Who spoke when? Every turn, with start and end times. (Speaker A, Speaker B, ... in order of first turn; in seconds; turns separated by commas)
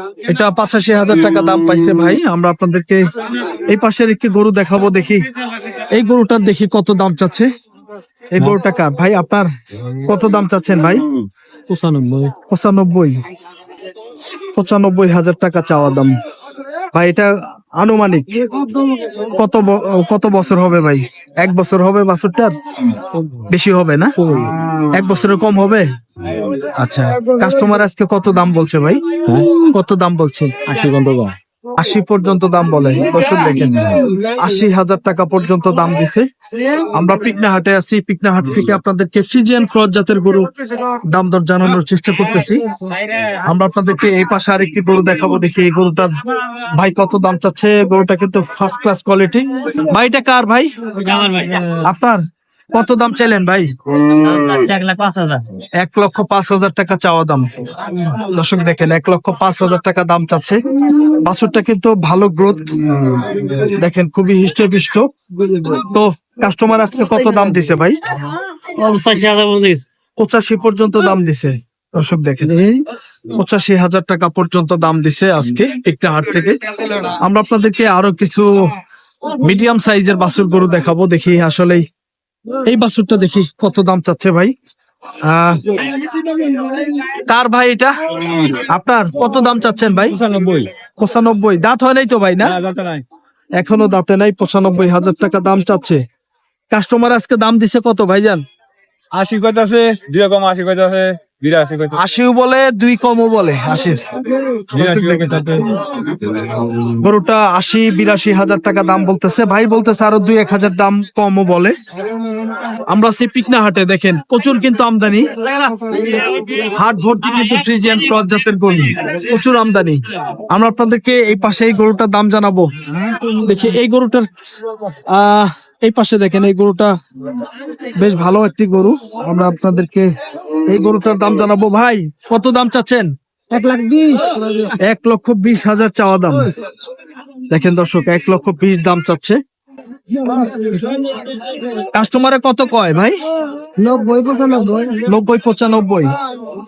Speaker A: 0.2-5.3, Speaker A: 5.9-7.5, Speaker A: 8.3-11.1, Speaker B: 11.7-12.2, Speaker A: 12.3-13.2, Speaker A: 14.5-16.1, Speaker A: 16.9-18.4, Speaker B: 18.5-19.1, Speaker A: 19.2-22.5, Speaker A: 23.5-24.1, Speaker A: 24.9-25.9, Speaker A: 26.7-30.5, Speaker C: 30.7-31.4, Speaker A: 31.7-36.3, Speaker A: 36.9-42.7, Speaker A: 43.4-50.7, Speaker B: 51.0-51.8, Speaker A: 51.8-52.2, Speaker A: 52.7-53.7, Speaker B: 54.2-55.5, Speaker A: 55.8-62.8, Speaker A: 63.5-65.1, Speaker B: 65.4-65.8, Speaker A: 65.7-68.0, Speaker B: 68.8-69.8, Speaker A: 70.2-72.5, Speaker B: 72.5-72.8, Speaker A: 73.3-78.7, Speaker A: 79.3-81.8, Speaker A: 82.7-84.5, Speaker A: 85.2-85.8, Speaker A: 87.2-87.9, Speaker A: 88.5-90.2, Speaker C: 90.1-90.7, Speaker A: 91.0-92.6, Speaker C: 92.5-93.0, Speaker A: 93.6-96.0, Speaker A: 96.7-98.4, Speaker C: 99.1-102.0, Speaker A: 101.9-104.0, Speaker A: 104.7-105.8, Speaker C: 104.7-105.7, Speaker A: 106.9-111.7, Speaker A: 112.9-115.3, Speaker B: 115.7-116.2, Speaker A: 116.5-122.7, Speaker A: 123.3-124.3, Speaker A: 124.9-126.9, Speaker A: 128.0-130.1, Speaker A: 130.7-133.1, Speaker B: 133.5-134.8, Speaker A: 134.8-136.5, Speaker A: 137.5-139.4, Speaker B: 140.2-141.0, Speaker A: 141.9-143.2, Speaker B: 143.8-145.1, Speaker A: 145.1-146.1